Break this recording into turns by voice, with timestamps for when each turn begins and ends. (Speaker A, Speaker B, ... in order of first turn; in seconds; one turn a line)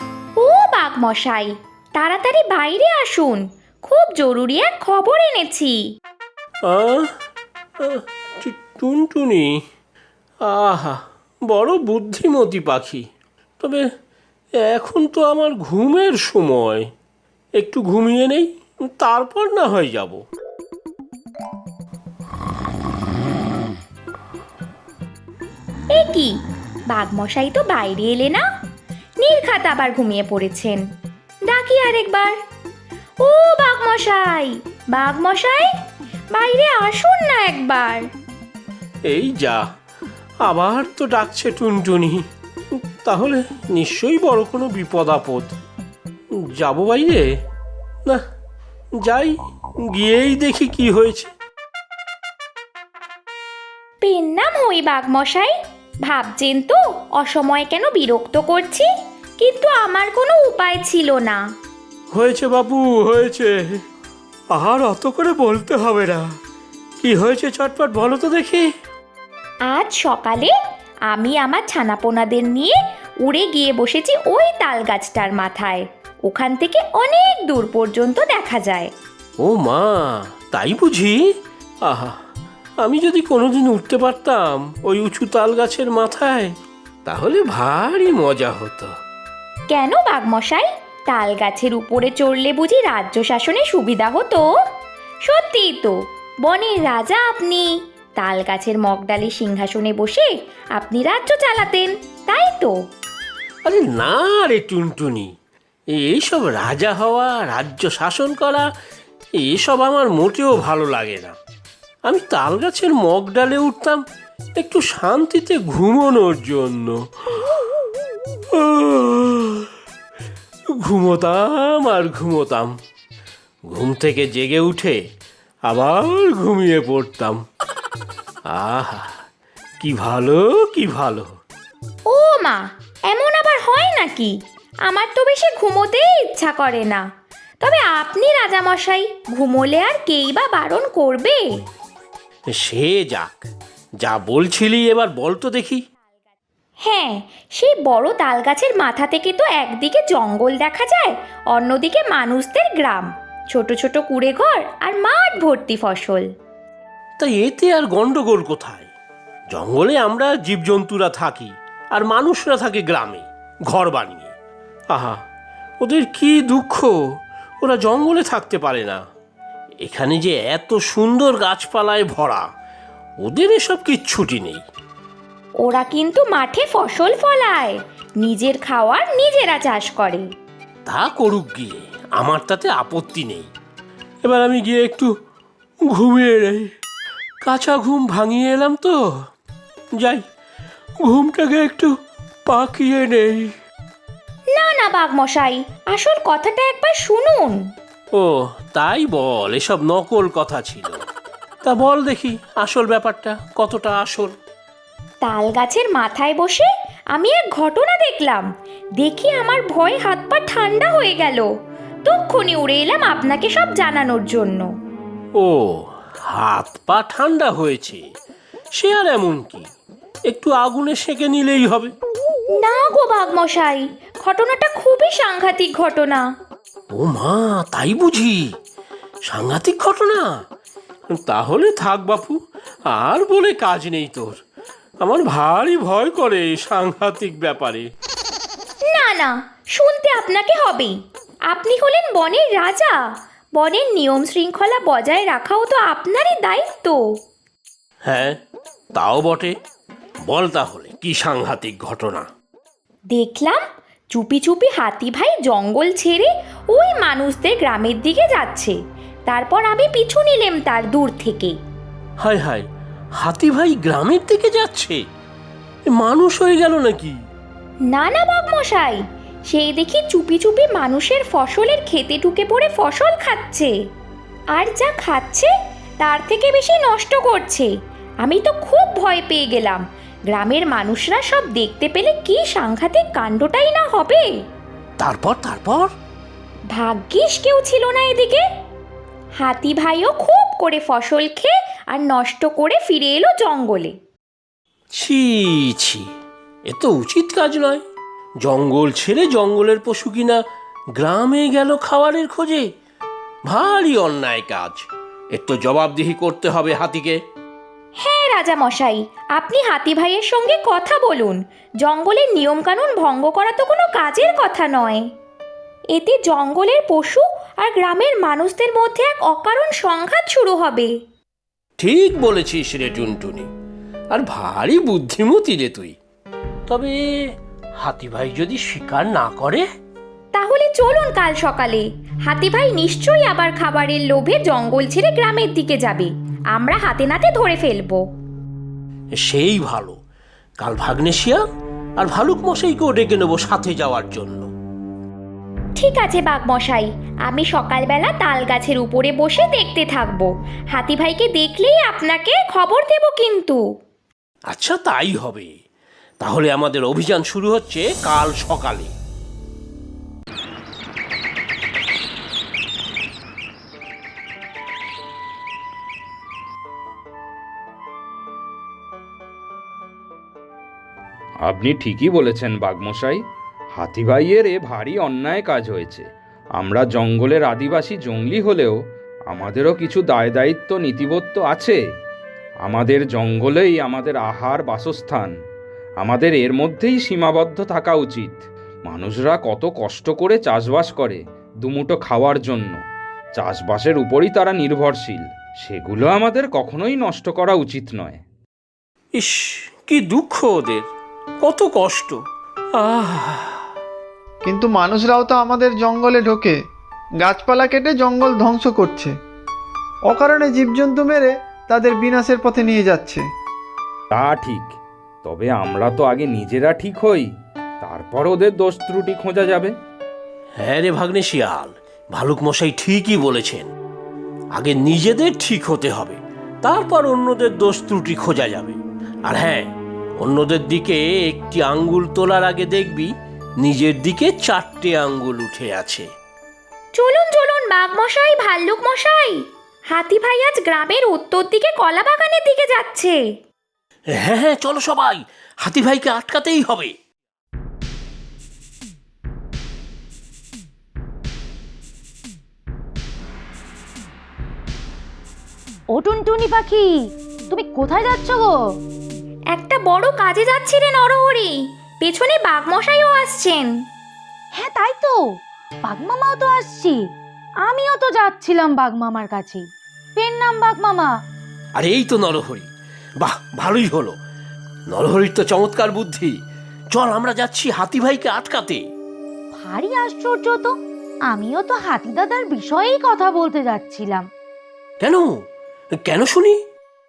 Speaker A: 0.4-5.8
Speaker B: 6.7-7.0
Speaker B: 7.8-9.5
Speaker B: 10.5-13.1
Speaker B: 14.7-16.9
Speaker B: 17.6-20.2
Speaker A: 25.9-26.3
Speaker A: 26.9-28.4
Speaker A: 29.2-30.8
Speaker A: 31.5-32.3
Speaker A: 33.2-35.7
Speaker A: 36.3-38.0
Speaker B: 39.1-39.6
Speaker B: 40.4-42.2
Speaker B: 43.0-45.5
Speaker B: 46.5-47.3
Speaker B: 49.0-49.4
Speaker B: 49.9-51.3
Speaker A: 54.0-58.9
Speaker A: 59.4-61.4
Speaker B: 62.1-63.6
Speaker B: 64.5-66.3
Speaker B: 67.0-68.6
Speaker A: 69.7-70.5
Speaker A: 71.1-78.9
Speaker B: 79.4-81.2
Speaker B: 81.9-82.2
Speaker B: 82.8-86.5
Speaker B: 87.0-88.9
Speaker A: 89.7-94.4
Speaker A: 95.3-95.9
Speaker A: 96.5-102.7
Speaker B: 103.7-105.3
Speaker B: 106.0-108.7
Speaker B: 109.4-111.3
Speaker B: 112.0-114.0
Speaker B: 114.6-116.9
Speaker B: 118.5-119.7
Speaker B: 120.8-122.7
Speaker B: 123.7-125.0
Speaker B: 125.7-127.4
Speaker B: 128.5-129.1
Speaker B: 129.8-131.3
Speaker A: 132.1-134.3
Speaker A: 134.9-137.0
Speaker A: 137.6-141.4
Speaker B: 142.6-143.5
Speaker B: 144.0-145.8
Speaker A: 146.8-156.3
Speaker B: 157.2-158.9
Speaker B: 159.5-164.3
Speaker B: 164.9-165.2
Speaker B: 165.8-166.9
Speaker B: 167.6-169.0
Speaker B: 169.8-172.4
Speaker B: 173.2-174.6
Speaker A: 175.6-180.2
Speaker B: 180.9-183.5
Speaker B: 184.2-185.1
Speaker B: 185.9-186.7
Speaker B: 187.4-189.0
Speaker B: 191.0-191.9
Speaker B: 192.5-193.5
Speaker A: 194.5-197.6
Speaker B: 198.2-201.0
Speaker B: 201.6-204.3
Speaker A: 205.2-208.5
Speaker A: 209.0-211.5
Speaker A: 212.1-214.7
Speaker B: 215.4-218.0
Speaker B: 218.8-219.7
Speaker B: 220.3-221.9
Speaker A: 222.6-226.3
Speaker B: 226.9-228.4
Speaker B: 229.3-230.2
Speaker B: 231.1-232.3
Speaker B: 232.9-234.3
Speaker B: 235.0-237.8
Speaker A: 238.9-240.9
Speaker A: 241.5-243.0
Speaker A: 243.6-247.0
Speaker B: 248.1-248.3
Speaker B: 248.9-249.5
Speaker B: 250.3-252.2
Speaker A: 253.1-253.6
Speaker A: 254.1-258.8
Speaker A: 259.3-261.6
Speaker B: 262.2-262.6
Speaker B: 263.2-265.0
Speaker B: 265.9-267.1
Speaker A: 267.9-273.7
Speaker A: 274.5-277.7
Speaker A: 278.2-284.3
Speaker B: 285.0-285.9
Speaker A: 286.7-288.4
Speaker A: 289.4-293.9
Speaker B: 295.0-296.0
Speaker B: 296.7-297.8
Speaker B: 298.4-300.4
Speaker B: 301.0-302.6
Speaker B: 303.5-307.2
Speaker A: 308.0-315.0
Speaker A: 315.9-320.9
Speaker B: 321.8-323.5
Speaker B: 324.1-325.9
Speaker B: 326.7-327.0
Speaker B: 327.8-329.6
Speaker A: 330.3-338.0
Speaker B: 339.2-340.0
Speaker B: 340.6-341.4
Speaker B: 342.0-344.5
Speaker A: 345.8-353.6
Speaker B: 354.5-355.5
Speaker B: 356.2-358.9
Speaker C: 371.4-373.2
Speaker C: 373.7-381.8
Speaker C: 382.6-385.3
Speaker C: 386.0-392.8
Speaker C: 393.4-398.2
Speaker B: 399.1-400.9
Speaker B: 401.4-402.2
Speaker B: 402.8-403.6
Speaker D: 404.4-406.6
Speaker D: 407.2-409.1
Speaker D: 410.1-413.2
Speaker C: 414.1-417.3
Speaker C: 417.8-419.7
Speaker B: 420.6-423.7
Speaker B: 424.5-429.6
Speaker B: 430.2-433.1
Speaker B: 433.6-436.0
Speaker A: 436.9-443.2
Speaker B: 444.2-446.9
Speaker E: 455.9-456.9
Speaker E: 457.5-458.5
Speaker A: 459.5-463.7
Speaker E: 464.6-465.2
Speaker E: 465.9-467.0
Speaker E: 467.6-469.6
Speaker E: 470.1-471.1
Speaker B: 471.8-472.7
Speaker B: 473.2-474.2
Speaker B: 474.9-476.4
Speaker B: 476.9-478.8
Speaker E: 479.5-480.7
Speaker E: 481.3-484.2
Speaker B: 485.0-485.3
Speaker B: 486.0-486.6